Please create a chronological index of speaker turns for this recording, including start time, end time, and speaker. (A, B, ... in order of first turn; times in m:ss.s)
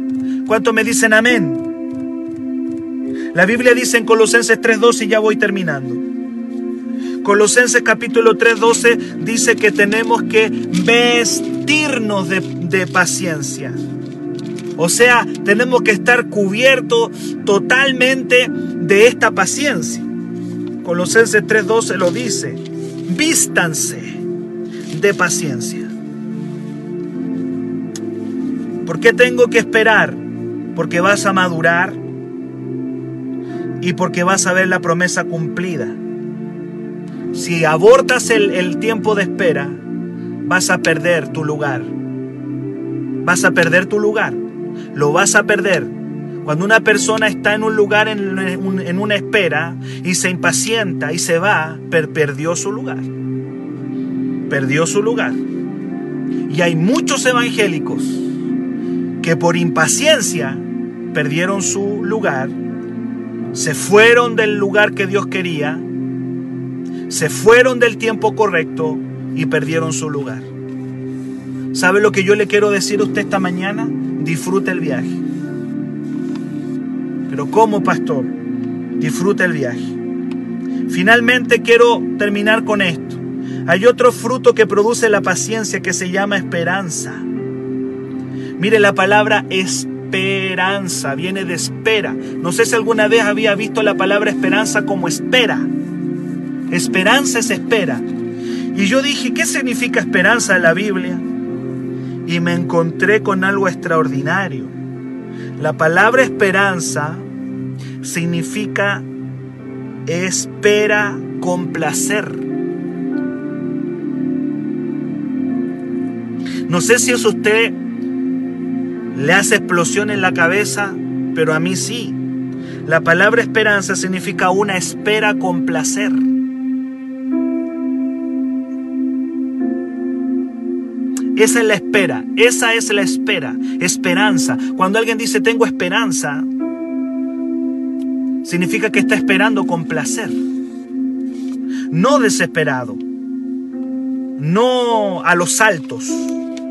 0:00.4-0:01.6 A
0:03.3-0:06.0 A
0:07.2-0:13.8 A
0:14.8-0:20.1 A
0:20.8-0:24.2 A
0:24.9-0:25.9 A
0:28.8-0:30.2 A
0:30.7-0:32.0 A
0:33.8-0:36.0 A
0:37.3-0:39.8 A
0:40.4-0:41.9 A
0:43.2-0:44.4 A
0:44.9-0:53.1 A
0:54.5-0:55.4 A
0:56.5-0:58.3 A
0:59.2-1:02.6 A
1:03.5-1:05.8 A
1:07.1-1:10.5 A
1:11.7-1:15.2 A
1:17.3-1:18.3 A
1:19.0-1:20.0 A
1:20.9-1:27.3 A
1:28.6-1:35.7 A
1:36.7-1:38.0 A
1:38.7-1:41.2 A
1:42.2-1:44.7 A
1:45.6-1:47.2 A
1:48.0-1:49.0 A
1:50.0-1:52.5 A
1:56.6-1:57.8 A
1:59.1-2:02.2 A
2:02.8-2:06.3 A
2:11.4-2:16.5 A
2:18.4-2:20.4 A
2:21.9-2:23.0 A
2:24.4-2:26.4 A